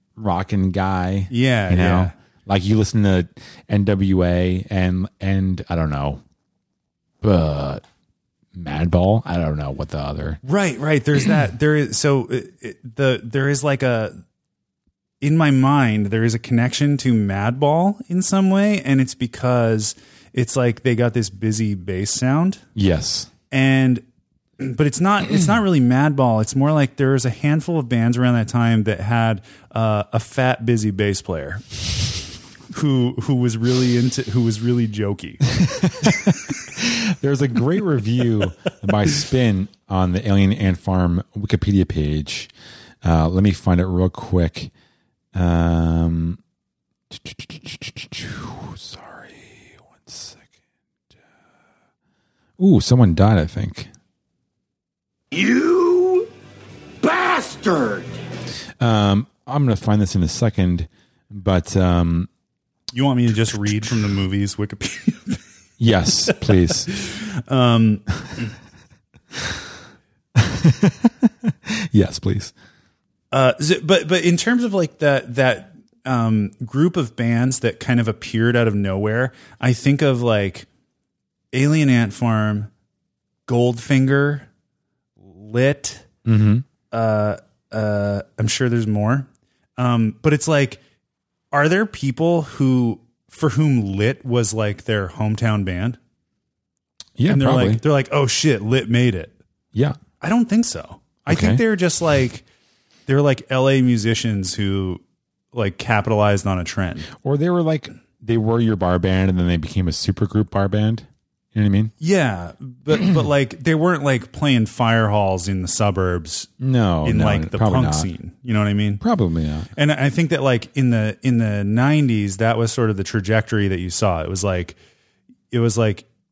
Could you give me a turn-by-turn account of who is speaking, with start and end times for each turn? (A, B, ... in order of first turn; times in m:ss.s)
0:00.2-0:06.2 A
0:01.3-0:02.1 B
0:07.2-0:07.8 A
0:08.5-0:10.4 A
0:10.4-0:14.2 B
0:15.2-0:22.6 B
0:22.8-0:23.3 A
0:23.5-0:24.0 B
0:24.6-0:31.6 B
0:32.7-0:35.4 B
0:35.5-0:42.5 A
0:43.0-0:44.7 A
0:45.3-0:46.4 A
0:47.1-0:50.4 A
0:52.6-0:53.9 A
0:55.3-0:56.3 C
0:57.0-0:58.1 C
0:58.8-1:02.3 A
1:02.9-1:05.4 B
1:05.8-1:06.9 A
1:06.7-1:08.5 B
1:10.4-1:12.5 A
1:13.3-1:20.7 B
1:21.5-1:22.7 B
1:23.5-1:24.5 B
1:25.2-1:26.1 B
1:26.2-1:26.6 A
1:26.9-1:30.8 B
1:31.5-1:36.0 B
1:37.2-1:37.8 A
1:37.3-1:39.3 B
1:40.2-1:42.4 B
1:41.3-1:41.6 A
1:43.1-1:45.0 B
1:45.5-1:47.1 B
1:47.2-1:51.9 A
1:52.0-1:56.5 B
1:56.6-1:58.1 A
1:57.0-1:59.0 B
1:59.0-1:59.7 A
1:59.8-2:04.8 B
2:05.5-2:06.1 B